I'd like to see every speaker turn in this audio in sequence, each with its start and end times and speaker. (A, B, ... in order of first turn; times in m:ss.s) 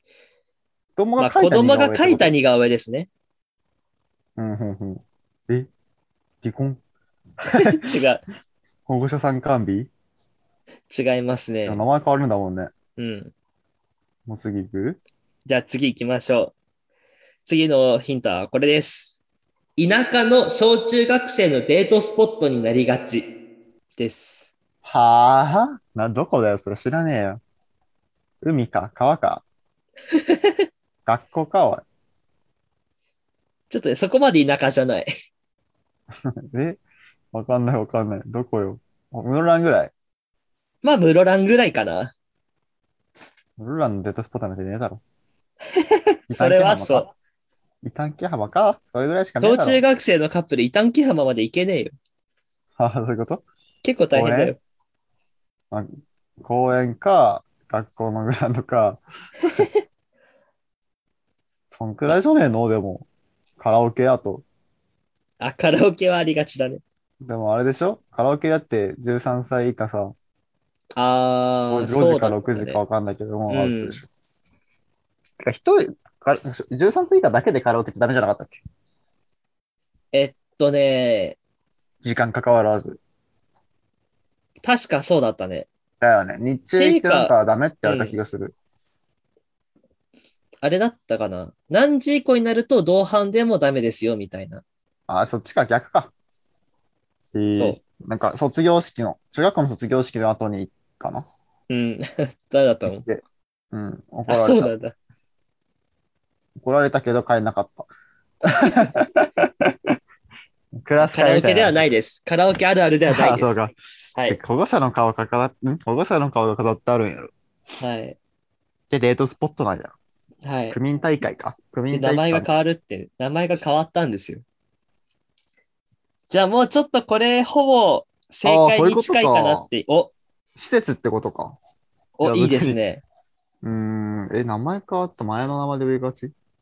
0:01.0-0:02.3 A
0:01.2-0:03.1 B
0:04.4-0:05.7 A
0:06.4-0:06.8 A
0:07.4-0:07.8 A
0:07.5-0:08.2 B
0:08.9-0:09.9 A
0:10.9-0:11.8 B
0:11.6-0:12.7 A
0:13.0-0:13.3 B
0:14.3-0:15.0 A
0:15.4-0:16.5 B
0:17.4-0:19.2 B
0:19.8-0:23.3 B
0:24.0-0:24.5 B
0:24.8-0:27.4 A
0:28.4-0:29.4 A
0:30.1-0:30.6 B
0:31.0-0:31.8 A
0:33.7-0:35.1 B
0:36.5-0:36.8 A
0:37.3-0:39.9 A
0:40.8-0:42.1 B
0:43.6-0:45.0 A
0:45.7-0:47.1 B
0:46.3-0:47.1 A
0:47.8-0:49.8 A
0:49.4-0:51.9 B
0:52.8-0:53.4 A
0:53.8-0:54.6 B
0:54.1-0:54.5 A
0:56.4-0:59.0 A
1:01.7-1:03.1 A
1:03.6-1:04.4 A
1:05.4-1:06.8 B
1:07.2-1:10.1 A
1:11.0-1:12.8 B
1:11.7-1:14.0 A
1:13.5-1:14.0 B
1:15.4-1:18.6 A
1:20.1-1:21.4 B
1:22.0-1:23.0 A
1:24.6-1:25.7 B
1:26.0-1:28.5 A
1:26.8-1:27.3 B
1:27.8-1:28.1 B
1:30.6-1:34.6 B
1:35.1-1:36.1 A
1:37.3-1:41.2 A
1:37.5-1:37.8 B
1:41.7-1:43.0 B
1:42.9-1:44.7 A
1:44.3-1:44.9 B
1:46.6-1:47.9 A
1:48.5-1:49.9 A
1:50.7-1:51.8 A
1:51.0-1:54.4 B
1:53.1-1:53.8 A
1:54.3-1:57.3 A
1:57.8-1:58.2 B
1:58.9-1:59.9 A
2:00.4-2:00.8 B
2:00.7-2:02.5 A
2:01.9-2:04.4 B
2:06.3-2:10.1 B
2:08.4-2:09.7 A
2:10.6-2:11.6 A
2:12.2-2:13.0 B
2:12.2-2:12.8 A
2:13.6-2:16.3 A